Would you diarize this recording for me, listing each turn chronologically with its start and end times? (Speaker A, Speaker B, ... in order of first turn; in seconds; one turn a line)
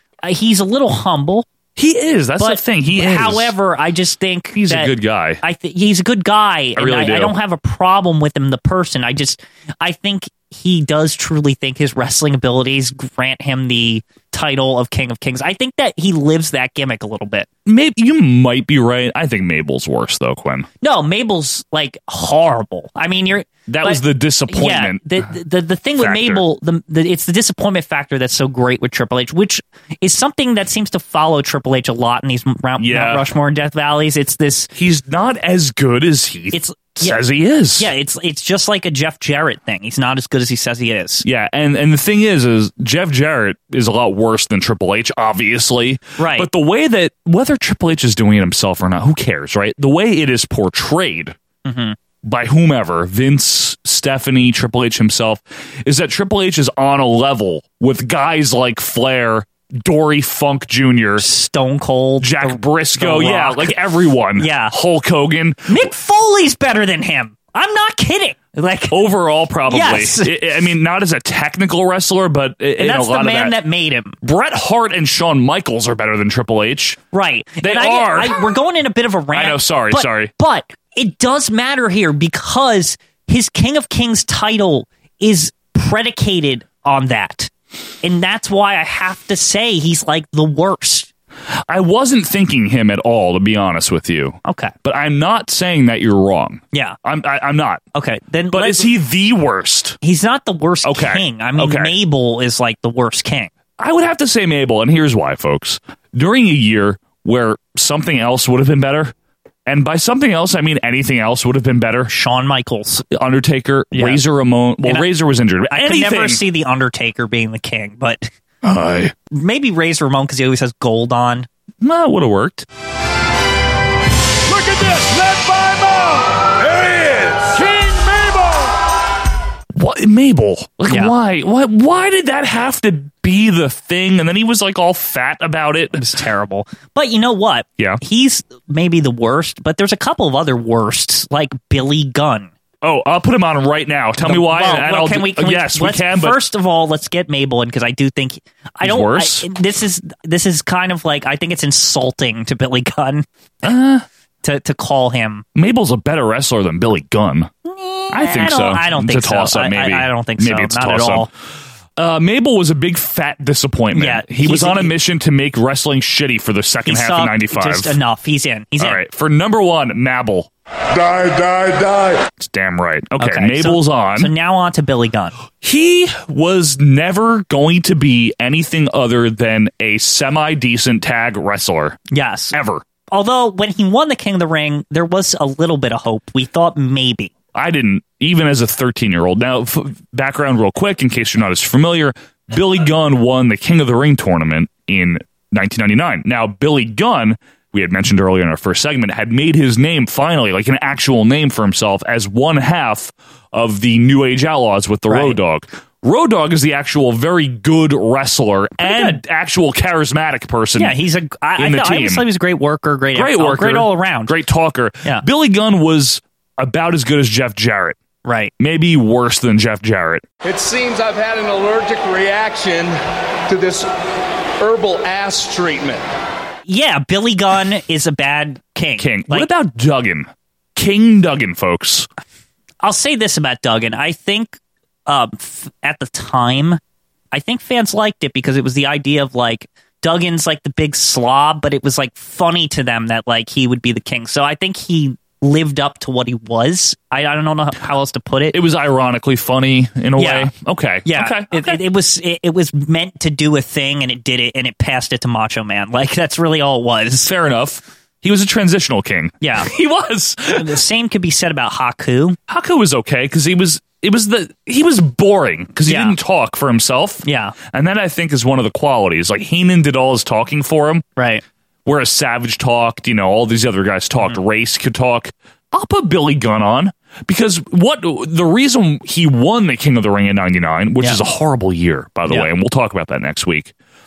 Speaker A: 0.2-1.4
Speaker B: 1.8-3.5
Speaker A: 2.4-17.5
Speaker B: 4.6-5.4
Speaker B: 6.8-7.3
Speaker B: 17.6-20.6
Speaker A: 20.8-34.7
Speaker B: 23.7-25.1
Speaker B: 26.0-26.4
Speaker B: 32.8-33.2
Speaker B: 34.7-37.9
Speaker A: 36.5-37.2
Speaker A: 37.8-41.2
Speaker B: 41.2-51.4
Speaker A: 46.2-46.5
Speaker A: 51.6-52.0
Speaker B: 52.2-61.2
Speaker A: 61.2-63.8
Speaker B: 62.2-65.9
Speaker A: 64.4-64.7
Speaker A: 65.7-69.0
Speaker B: 68.9-73.5
Speaker A: 69.7-70.3
Speaker A: 72.8-74.2
Speaker B: 74.2-77.0
Speaker A: 77.1-87.5
Speaker B: 77.6-78.4
Speaker B: 79.3-80.3
Speaker A: 88.0-91.1
Speaker B: 91.7-97.8
Speaker A: 94.5-94.7
Speaker A: 97.9-98.9
Speaker B: 98.5-100.0
Speaker A: 100.0-103.5
Speaker B: 100.8-101.9
Speaker B: 103.8-109.1
Speaker B: 109.7-112.1
Speaker A: 112.1-113.0
Speaker B: 113.1-116.4
Speaker A: 113.9-114.2
Speaker A: 115.7-118.3
Speaker B: 118.6-119.1
Speaker A: 119.3-121.5
Speaker B: 121.8-122.7
Speaker C: 124.5-128.7
Speaker B: 129.7-136.0
Speaker A: 135.9-142.5
Speaker B: 142.8-146.4
Speaker A: 144.2-153.2
Speaker B: 148.8-149.4
Speaker B: 153.6-154.0
Speaker A: 154.4-155.4
Speaker B: 155.6-157.5
Speaker A: 157.7-161.3
Speaker B: 158.1-161.3
Speaker B: 162.0-168.0
Speaker A: 163.9-164.9
Speaker A: 166.8-169.0
Speaker B: 168.8-174.3
Speaker A: 173.2-175.3
Speaker B: 175.6-182.0
Speaker A: 182.1-182.5
Speaker B: 182.5-182.8
Speaker A: 183.1-187.3
Speaker B: 187.5-210.9
Speaker A: 205.1-205.4
Speaker A: 208.8-209.2
Speaker A: 210.8-214.3
Speaker B: 211.6-212.2
Speaker B: 213.1-218.0
Speaker A: 218.2-218.5
Speaker B: 218.6-220.2
Speaker D: 220.4-223.9
Speaker D: 224.6-226.0
Speaker A: 226.7-229.5
Speaker B: 229.0-232.1
Speaker A: 232.8-234.6
Speaker A: 235.1-236.8
Speaker A: 237.3-248.6
Speaker B: 248.5-251.8
Speaker A: 250.2-250.5
Speaker A: 251.1-257.3
Speaker B: 257.2-260.7
Speaker A: 259.4-259.7
Speaker A: 260.5-262.4
Speaker B: 262.5-271.0
Speaker A: 265.9-266.1
Speaker A: 267.2-267.6
Speaker A: 271.2-271.4
Speaker B: 271.9-283.7